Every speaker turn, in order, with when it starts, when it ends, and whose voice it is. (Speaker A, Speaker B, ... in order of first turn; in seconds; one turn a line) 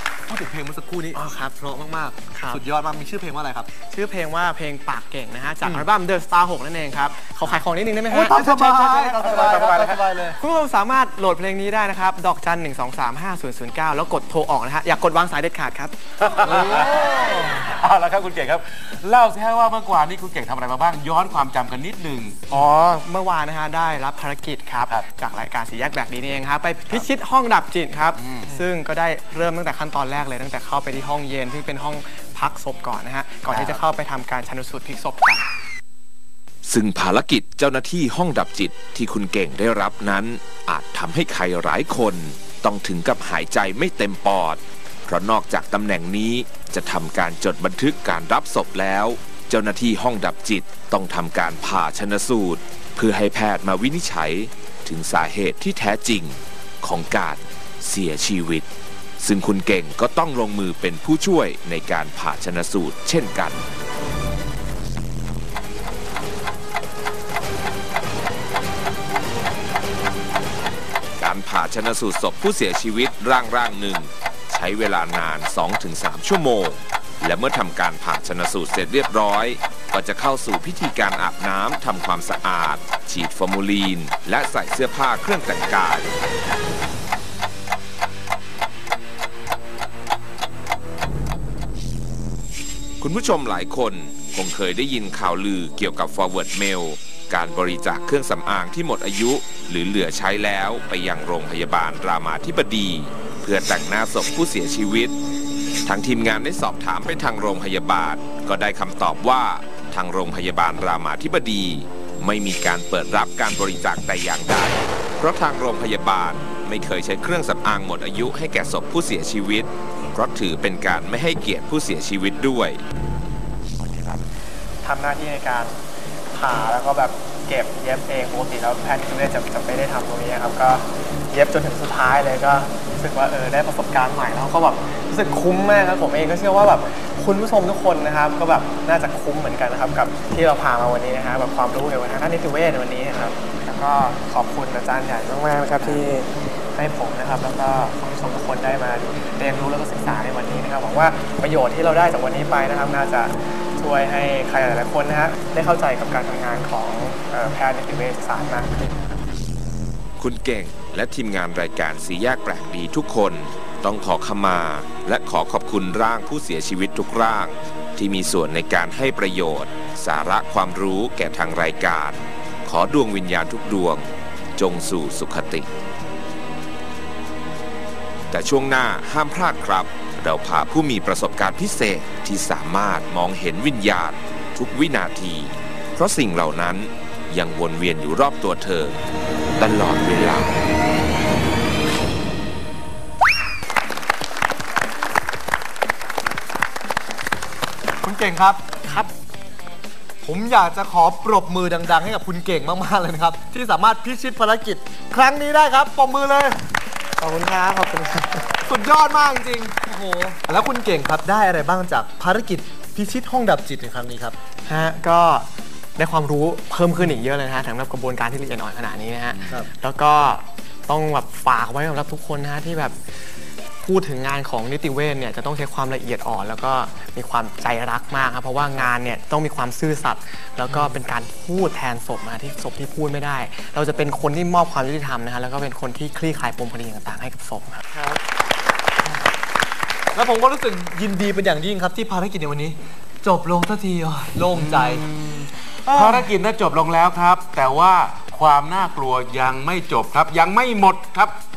Speaker A: 0.3-3.7
Speaker B: 1.2-1.5
Speaker B: 2.3-2.6
Speaker B: 3.8-9.7
Speaker A: 8.1-10.4
Speaker C: 9.2-10.0
Speaker B: 10.4-15.9
Speaker C: 16.3-22.4
Speaker B: 22.5-35.5
Speaker C: 28.2-28.5
Speaker D: 36.6-58.7
Speaker D: 59.2-63.6
Speaker D: 71.2-86.1
Speaker D: 93.0-105.1
Speaker D: 105.8-122.8
Speaker D: 123.8-124.2
Speaker B: 124.8-125.7
Speaker B: 126.3-159.2
Speaker D: 160.2-175.7
Speaker D: 178.3-189.0
Speaker D: 189.6-190.5
Speaker A: 198.0-199.0
Speaker A: 200.2-206.7
Speaker B: 207.2-208.5
Speaker A: 208.6-214.4
Speaker B: 214.7-223.0
Speaker B: 223.8-237.8
Speaker A: 230.7-231.0
Speaker A: 240.1-245.1
Speaker C: 244.5-251.4
Speaker A: 245.9-246.3